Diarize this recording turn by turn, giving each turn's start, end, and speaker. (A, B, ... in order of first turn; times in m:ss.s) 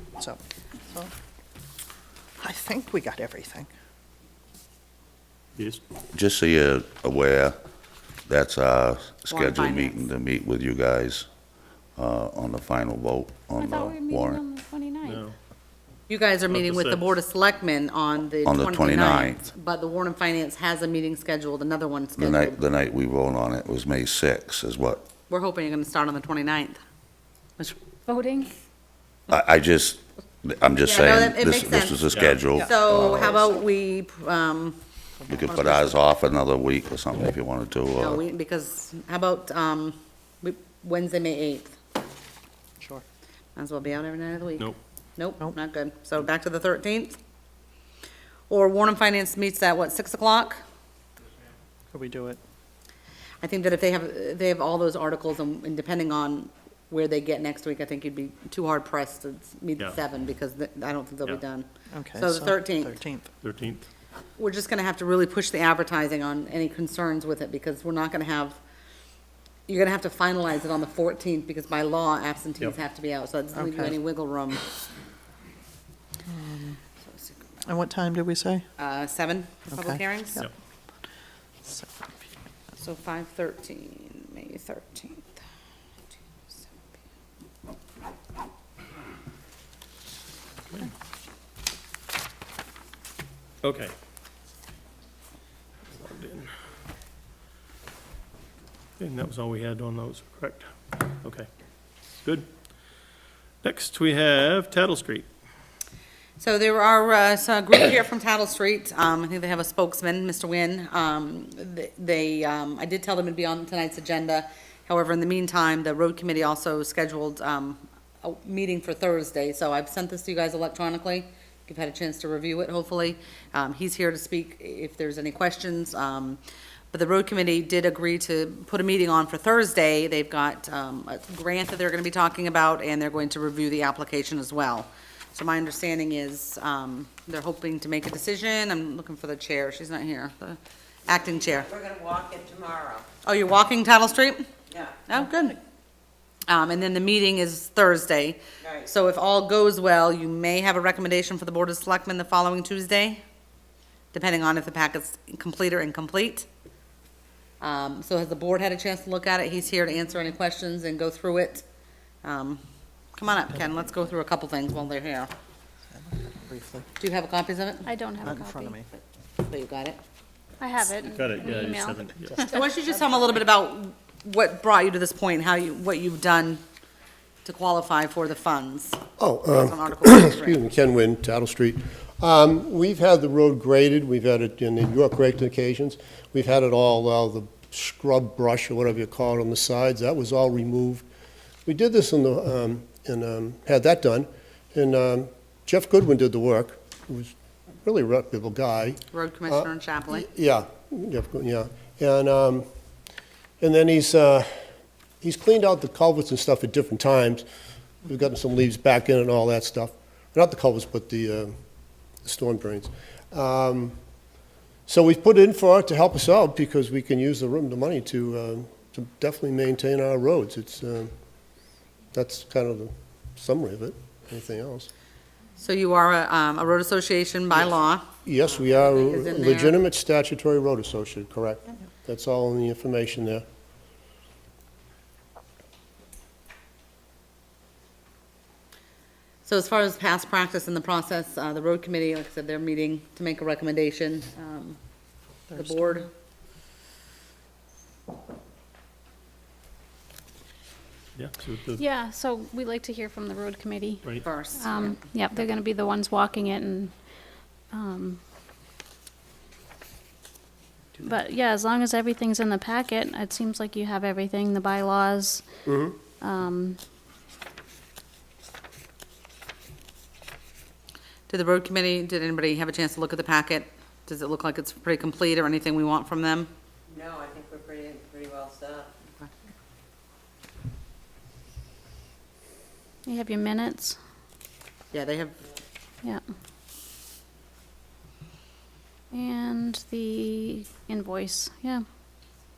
0:00.2-0:01.1 A
0:02.4-0:03.7 A
0:05.6-0:05.8 B
0:06.1-0:07.6 C
0:08.3-0:11.3 C
0:09.3-0:10.0 D
0:12.0-0:14.4 C
0:13.6-0:15.3 E
0:15.0-0:15.3 B
0:16.1-0:22.6 D
0:16.5-0:17.1 B
0:18.4-0:19.5 C
0:22.2-0:25.0 C
0:25.3-0:26.8 D
0:28.1-0:28.5 E
0:29.3-0:33.3 C
0:30.8-0:32.0 D
0:32.1-0:32.4 B
0:32.6-0:34.8 D
0:35.3-0:38.2 C
0:35.5-0:36.0 D
0:38.0-0:41.8 D
0:43.6-0:47.2 D
0:48.5-0:50.6 D
0:51.9-0:52.4 A
0:53.4-1:03.0 D
1:01.9-1:03.3 A
1:03.4-1:03.9 B
1:04.4-1:08.6 D
1:09.7-1:14.6 D
1:13.6-1:13.9 A
1:16.3-1:16.8 A
1:17.6-1:18.6 A
1:18.8-1:20.4 D
1:19.7-1:20.4 A
1:21.6-1:22.3 A
1:22.8-1:25.4 D
1:33.6-1:34.0 B
1:35.9-1:36.5 B
1:39.0-1:41.5 B
1:42.2-1:42.5 B
1:43.6-1:45.3 B
1:46.4-2:06.4 D
2:06.9-2:21.8 D
2:21.8-2:23.1 F
2:23.2-2:24.5 D
2:25.1-2:25.6 D
2:26.5-2:33.2 D
2:34.1-2:36.5 D
2:37.6-2:41.6 D
2:42.2-2:42.6 D
2:43.2-2:45.3 D
2:46.0-2:46.9 A
2:47.0-2:47.9 D
2:47.8-2:48.8 E
2:48.2-2:48.9 A
2:49.4-2:50.0 D
2:50.6-2:52.6 E
2:51.1-2:52.4 B
2:52.4-2:56.6 D
2:57.4-3:00.6 D
2:59.2-3:11.0 G
3:11.7-3:17.3 G
3:17.8-3:22.7 G
3:19.1-3:20.3 D
3:23.6-3:24.6 G
3:25.2-3:27.4 G
3:28.0-3:31.5 G
3:32.2-3:34.0 G
3:34.9-3:41.1 G
3:42.1-3:44.9 G
3:45.6-3:49.8 D
3:48.3-3:53.4 G
3:59.4-4:04.8 D
4:05.5-4:06.1 D
4:05.5-4:06.0 A
4:11.2-4:11.8 B
4:11.8-4:16.9 E
4:14.2-4:15.0 D
4:17.7-4:18.2 E
4:21.0-4:25.4 E
4:25.7-4:26.0 G
4:26.2-4:26.8 E
4:31.3-4:36.5 D
4:37.0-4:38.9 F
4:43.1-4:44.0 E
4:44.9-4:45.4 D
4:49.1-4:51.8 E